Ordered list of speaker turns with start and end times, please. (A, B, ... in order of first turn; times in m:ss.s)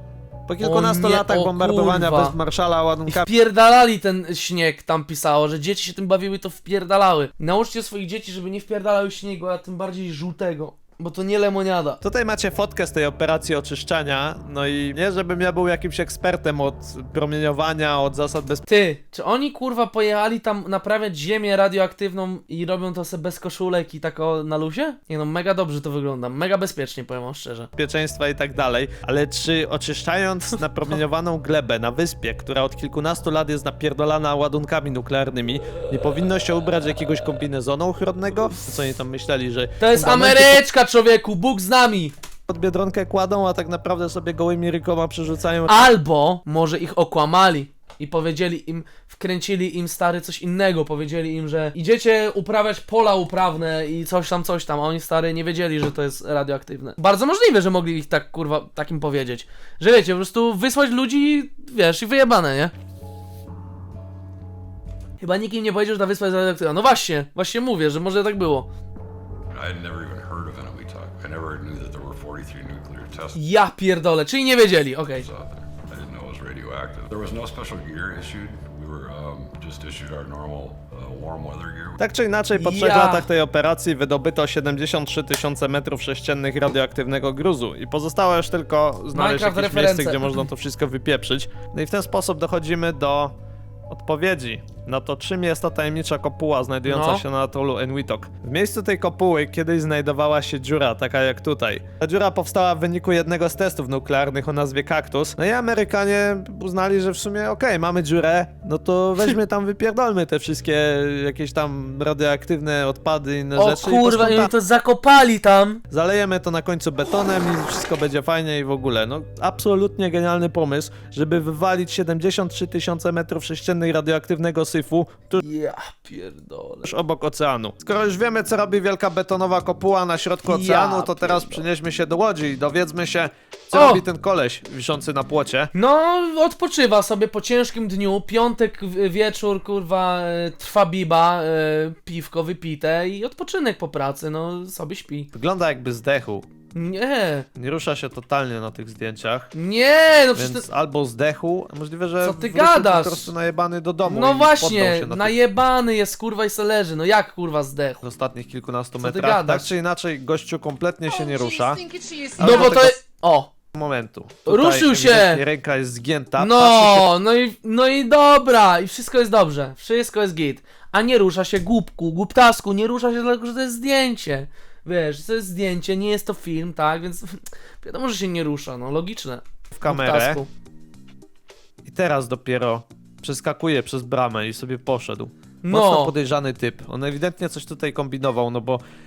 0:00.5-0:03.3 A
0:00.6-0:02.4 B
0:03.1-0:12.0 B
0:12.0-0:18.6 A
0:18.7-0:27.7 B
0:27.8-0:40.6 A
0:39.8-0:42.1 B
0:42.5-0:45.9 A
0:45.7-1:02.7 B
1:05.2-1:08.7 B
1:09.5-1:13.4 C
1:13.4-1:15.3 B
1:15.2-1:22.0 C
1:22.0-1:33.3 A
1:22.5-1:23.3 B
1:29.1-1:30.4 B
1:33.9-1:54.5 A
1:36.8-1:37.2 B
1:53.6-1:55.8 B
1:55.9-2:05.4 A
2:05.4-2:06.9 B
2:06.8-2:15.7 A
2:10.5-2:11.6 B
2:13.7-2:14.0 B
2:15.7-2:25.3 B
2:25.3-2:26.4 A
2:26.7-2:27.5 B
2:27.6-2:29.5 A
2:29.5-2:30.6 B
2:30.3-2:35.3 A
2:32.2-2:33.3 B
2:34.0-2:38.0 B
2:38.0-2:41.8 A
2:39.0-2:39.7 B
2:41.2-2:43.5 B
2:42.4-2:43.0 A
2:43.7-2:47.1 A
2:44.4-2:45.4 B
2:46.4-3:00.5 B
2:59.7-3:00.4 A
3:01.8-3:08.8 A
3:05.6-3:06.1 B